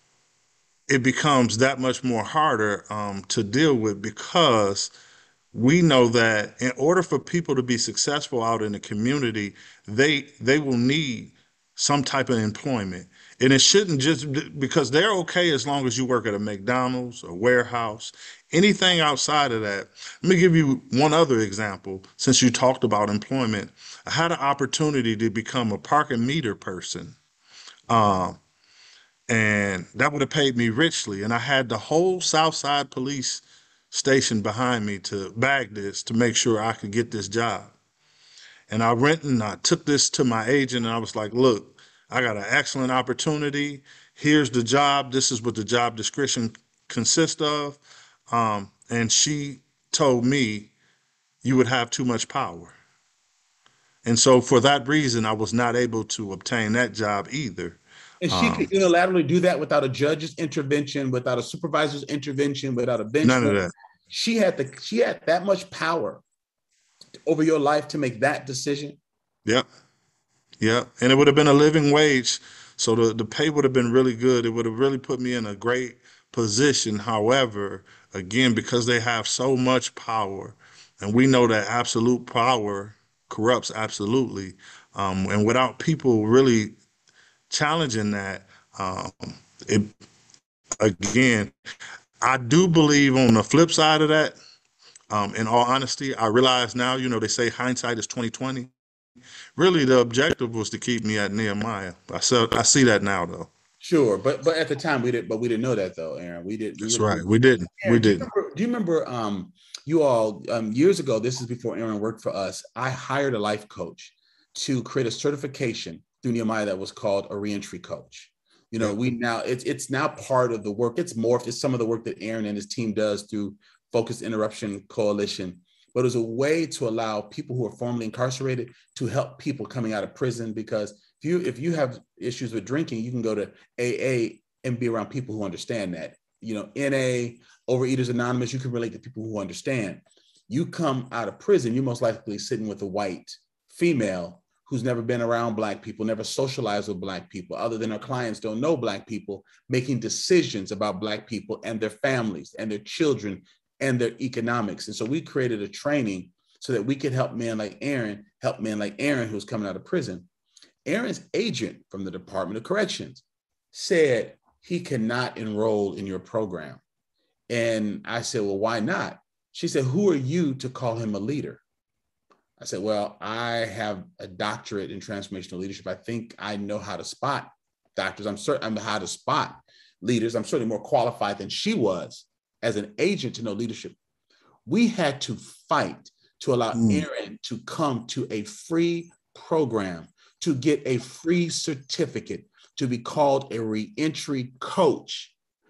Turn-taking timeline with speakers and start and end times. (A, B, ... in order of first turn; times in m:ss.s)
0:00.9-0:04.9 A
0:05.5-0:27.2 A
0:27.9-0:28.4 A
0:29.3-0:37.7 A
0:38.7-0:50.7 A
0:51.4-0:52.7 A
0:54.0-0:58.7 A
0:58.2-1:06.2 B
1:03.2-1:03.7 A
1:07.2-1:09.0 B
1:10.6-1:26.8 A
1:27.5-1:29.9 A
1:30.8-1:31.5 A
1:32.2-1:34.4 A
1:35.1-1:38.7 A
1:39.6-1:43.5 A
1:43.8-1:47.2 B
1:46.8-1:48.2 A
1:47.8-2:40.3 B
2:40.8-2:46.8 B
2:47.5-2:51.6 B
2:52.6-3:04.0 B
3:04.6-3:15.3 B
3:06.7-3:07.0 A